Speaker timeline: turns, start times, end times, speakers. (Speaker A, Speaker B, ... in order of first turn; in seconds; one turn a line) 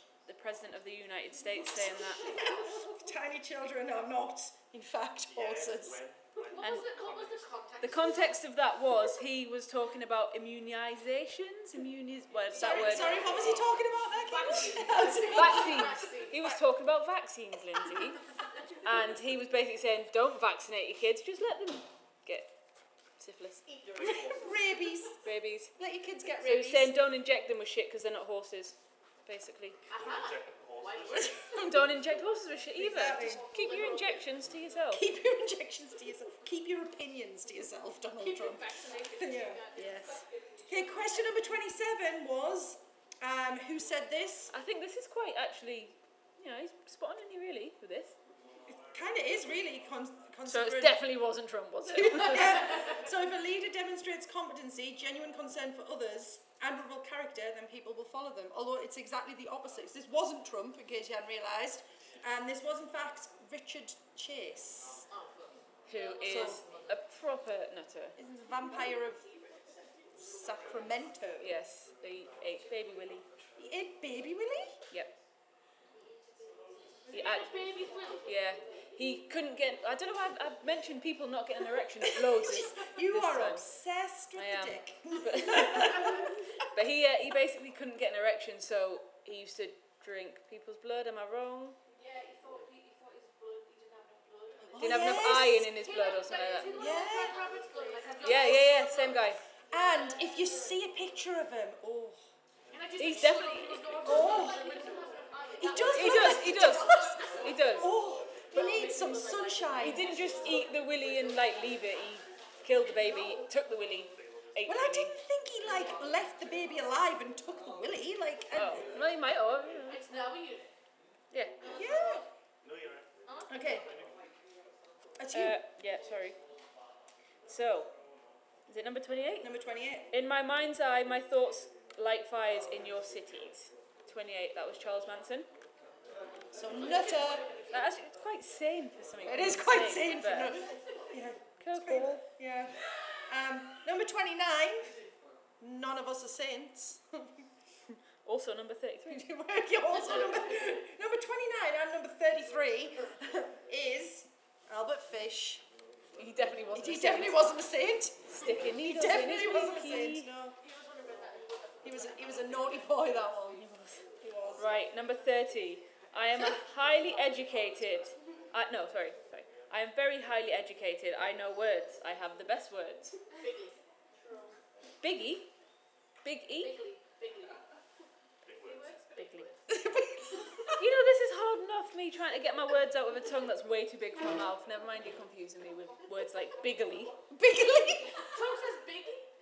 Speaker A: 0.2-2.4
Speaker B: 2.3-6.0
Speaker C: 6.5-8.4
Speaker A: 6.6-6.9
Speaker A: 7.8-13.5
Speaker B: 12.5-15.9
Speaker C: 12.6-13.7
Speaker C: 14.3-16.4
Speaker A: 15.3-18.2
Speaker A: 18.8-22.5
Speaker A: 23.2-23.6
Speaker B: 24.0-25.2
Speaker A: 25.2-25.7
Speaker B: 25.8-26.9
Speaker A: 26.4-29.8
Speaker C: 29.9-32.0
Speaker A: 31.6-35.1
Speaker B: 32.8-33.4
Speaker C: 33.5-34.2
Speaker B: 34.9-39.6
Speaker C: 38.2-40.6
Speaker A: 39.7-40.2
Speaker B: 40.7-44.5
Speaker A: 44.5-48.2
Speaker B: 48.7-51.0
Speaker A: 50.4-52.9
Speaker B: 51.9-65.0
Speaker C: 65.1-67.0
Speaker A: 65.9-68.2
Speaker B: 66.2-66.6
Speaker B: 68.2-69.3
Speaker B: 70.2-71.5
Speaker A: 71.4-73.3
Speaker B: 73.6-74.8
Speaker C: 77.0-78.3
Speaker A: 77.1-77.6
Speaker A: 78.2-83.6
Speaker B: 82.0-86.3
Speaker A: 84.3-91.8
Speaker C: 91.9-99.0
Speaker B: 94.7-95.7
Speaker A: 94.8-96.9
Speaker B: 96.7-97.4
Speaker B: 98.2-99.0
Speaker A: 98.2-99.4
Speaker B: 99.7-102.2
Speaker C: 102.7-107.7
Speaker A: 103.0-104.2
Speaker B: 104.0-104.7
Speaker B: 105.6-110.0
Speaker A: 105.8-107.9
Speaker C: 108.5-110.6
Speaker A: 109.8-115.2
Speaker B: 114.6-118.9
Speaker A: 118.5-120.0
Speaker C: 119.9-120.7
Speaker A: 121.3-121.6
Speaker C: 121.6-122.3
Speaker B: 121.7-122.2
Speaker C: 123.2-123.9
Speaker B: 123.5-123.9
Speaker B: 125.2-125.6
Speaker A: 125.3-126.4
Speaker A: 127.5-127.9
Speaker A: 128.7-129.5
Speaker B: 129.4-130.1
Speaker A: 130.1-135.5
Speaker B: 136.5-137.4
Speaker A: 137.7-140.6
Speaker B: 139.2-142.7
Speaker A: 141.6-142.2
Speaker B: 143.3-144.9
Speaker B: 145.6-147.3
Speaker A: 148.2-149.2
Speaker B: 149.1-155.6
Speaker C: 149.9-150.7
Speaker A: 156.2-157.5
Speaker B: 156.7-160.6
Speaker A: 158.3-160.3
Speaker C: 160.6-162.9
Speaker B: 161.8-163.7
Speaker A: 163.6-164.0
Speaker B: 164.2-164.7
Speaker A: 164.6-173.2
Speaker C: 173.3-173.8
Speaker A: 175.0-175.5
Speaker A: 176.2-176.8
Speaker C: 176.6-177.6
Speaker C: 178.6-179.6
Speaker A: 179.2-179.5
Speaker B: 179.7-180.7
Speaker A: 180.8-187.2
Speaker B: 187.3-188.4
Speaker C: 188.1-189.3